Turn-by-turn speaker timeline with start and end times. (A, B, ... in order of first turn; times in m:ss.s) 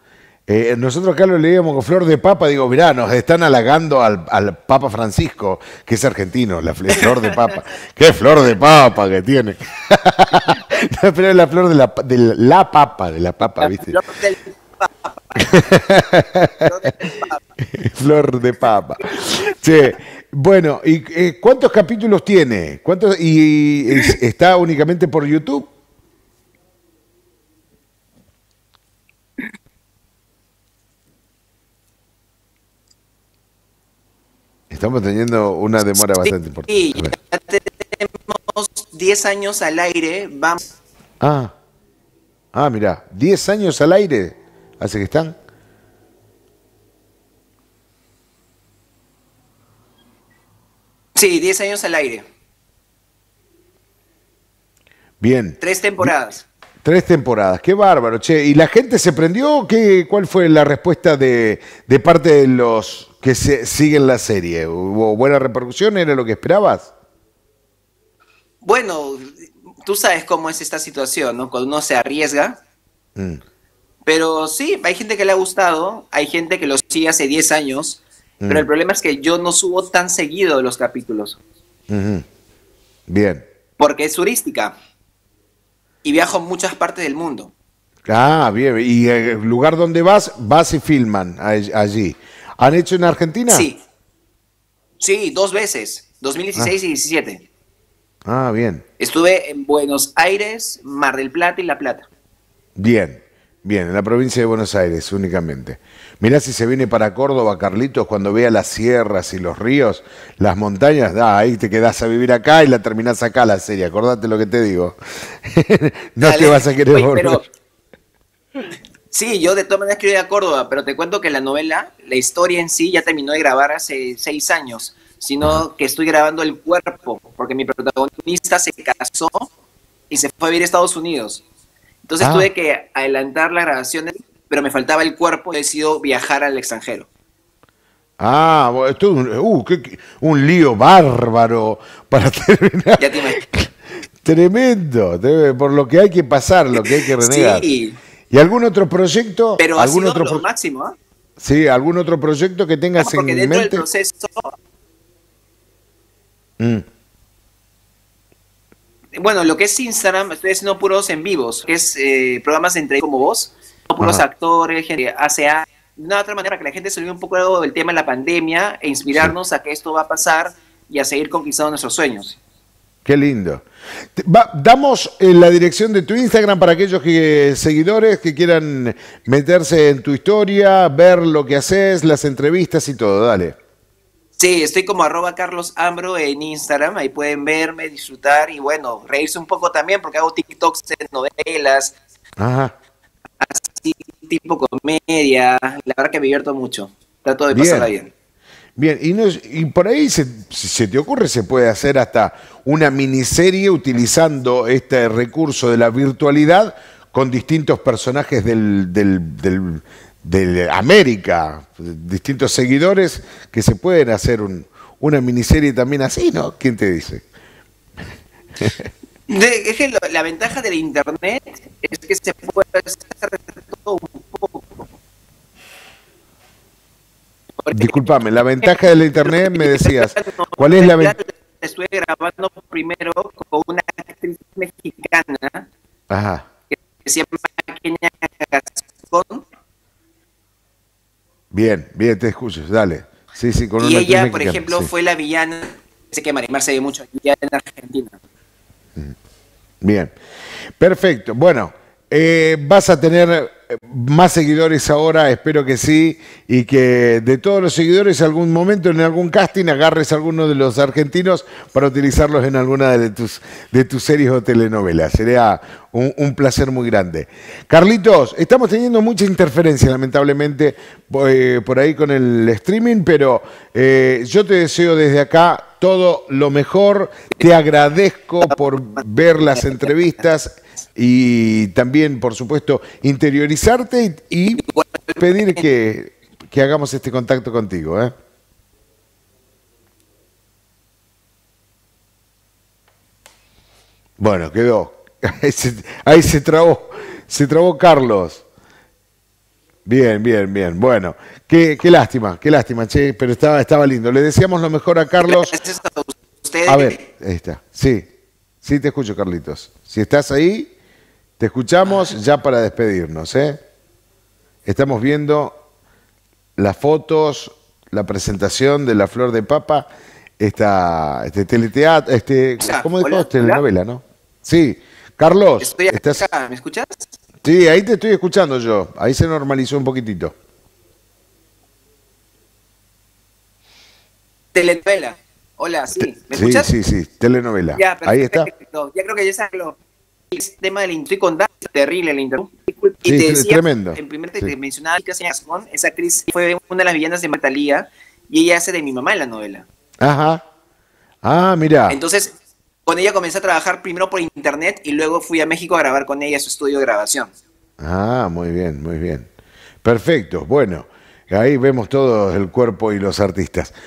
0:00.5-0:14.0 A
0:06.9-0:07.4 B
0:13.6-0:15.6 B
0:15.4-0:16.6 A
0:16.6-0:17.5 B
0:17.6-0:25.7 A
0:19.1-0:19.9 B
0:34.7-0:37.1 A
0:36.0-0:40.6 B
0:41.2-0:41.5 A
0:42.5-0:45.3 A
0:51.2-0:52.2 B
0:55.2-0:56.1 A
0:55.6-0:56.4 B
0:56.8-1:06.9 A
1:08.6-1:12.6 B
1:14.0-1:21.4 B
1:18.4-1:18.7 A
1:21.9-1:22.2 A
1:23.1-1:23.4 A
1:23.8-1:24.8 B
1:26.0-1:27.5 B
1:28.0-1:33.7 A
1:33.5-1:33.8 B
1:35.0-1:37.4 B
1:38.3-1:38.8 A
1:39.0-1:42.1 B
1:42.8-1:57.4 A
1:56.2-1:57.4 B
1:59.1-2:09.5 B
2:10.1-2:11.4 B
2:12.0-2:17.1 B
2:12.2-2:12.5 A
2:18.2-2:27.7 A
2:23.0-2:23.4 B
2:26.7-2:28.0 B
2:28.3-2:30.4 A
2:29.6-2:30.9 B
2:31.4-2:33.8 A
2:33.0-2:34.5 B
2:39.1-2:52.4 B
2:53.0-2:53.6 A
2:54.2-3:03.6 A
3:04.4-3:11.9 B
3:12.4-3:12.7 A
3:13.4-3:18.1 B
3:17.5-3:17.9 A
3:18.8-3:37.2 A
3:38.6-3:38.8 A
3:39.3-3:44.9 B
3:47.6-3:48.0 B
3:47.7-3:51.1 A
3:48.6-3:55.7 B
3:56.1-3:56.4 A
3:56.7-3:59.4 B
4:01.5-4:04.9 A
4:03.8-4:08.2 B
4:09.8-4:10.1 A
4:10.8-4:44.6 A
4:38.4-4:39.9 B
4:44.6-4:45.6 B
4:45.2-4:48.1 A
4:54.2-4:58.4 A
4:59.8-5:05.6 A
5:05.2-5:07.0 B
5:06.7-5:08.1 A
5:08.6-5:10.7 A
5:11.4-5:13.6 A
5:14.6-5:15.6 A
5:16.6-5:19.9 A
5:20.4-5:26.2 A
5:22.6-5:23.6 B
5:25.6-5:27.1 B
5:27.4-5:30.3 A
5:34.5-5:36.7 B
5:36.3-5:38.5 A
5:37.7-5:39.8 B
5:40.3-5:49.6 B
5:43.0-5:44.5 A
5:50.0-5:50.4 A
5:51.2-5:52.0 A
5:51.9-5:52.3 B
5:52.8-5:57.3 B
5:57.8-5:59.3 A
5:59.8-6:03.7 A